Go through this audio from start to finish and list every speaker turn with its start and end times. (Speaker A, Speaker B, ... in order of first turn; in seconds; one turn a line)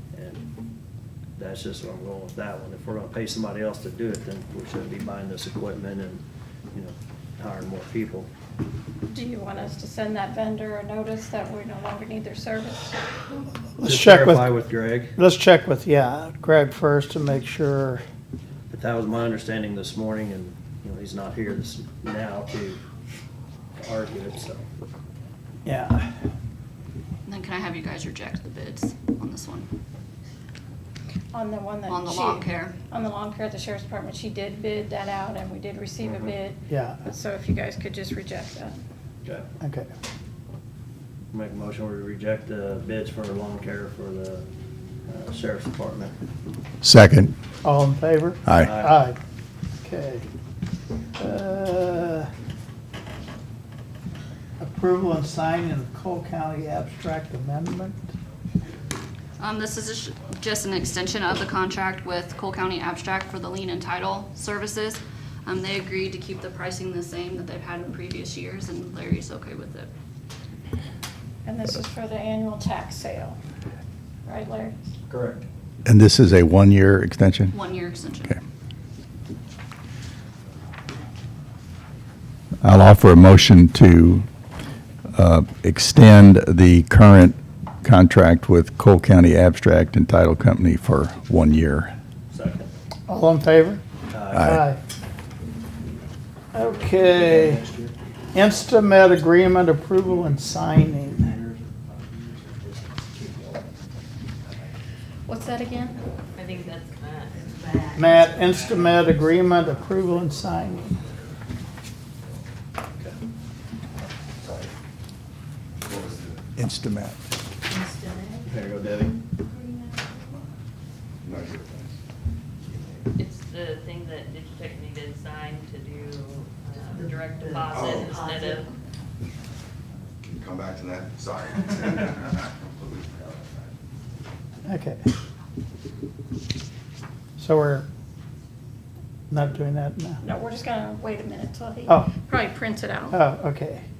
Speaker A: 0.1-0.5
Speaker A: 1.4-6.2
Speaker A: 6.7-8.3
Speaker B: 9.1-13.0
Speaker C: 13.8-14.6
Speaker A: 13.8-15.2
Speaker C: 15.2-18.0
Speaker A: 18.7-22.8
Speaker A: 23.8-24.6
Speaker C: 25.6-26.1
Speaker D: 27.2-29.7
Speaker B: 31.3-38.8
Speaker D: 31.9-32.8
Speaker A: 36.0-36.3
Speaker C: 36.7-37.0
Speaker C: 39.6-39.9
Speaker A: 41.3-44.5
Speaker A: 45.1-46.1
Speaker E: 46.8-47.3
Speaker C: 47.6-49.2
Speaker E: 48.5-48.7
Speaker A: 48.6-49.0
Speaker C: 49.8-50.3
Speaker C: 51.2-52.3
Speaker C: 54.6-58.1
Speaker D: 59.4-69.9
Speaker B: 71.4-73.4
Speaker B: 74.2-74.8
Speaker A: 75.1-75.4
Speaker E: 75.8-77.5
Speaker D: 77.5-78.4
Speaker E: 82.6-84.2
Speaker E: 85.1-91.9
Speaker A: 92.3-92.7
Speaker C: 93.1-93.8
Speaker A: 94.1-94.5
Speaker E: 94.3-94.6
Speaker C: 94.4-94.8
Speaker C: 96.5-97.6
Speaker A: 96.6-97.9
Speaker C: 98.3-101.3
Speaker B: 105.3-106.0
Speaker F: 106.3-109.3
Speaker C: 107.9-111.0
Speaker G: 115.8-116.4
Speaker E: 116.6-117.2
Speaker A: 118.5-119.1
Speaker G: 121.2-122.0
Speaker G: 122.7-123.0
Speaker F: 123.1-128.7
Speaker G: 127.6-128.2
Speaker G: 130.2-133.7
Speaker C: 134.7-135.1
Speaker C: 137.4-137.8
Speaker C: 139.3-140.2
Speaker B: 140.2-143.2
Speaker C: 141.9-142.2
Speaker C: 143.1-143.8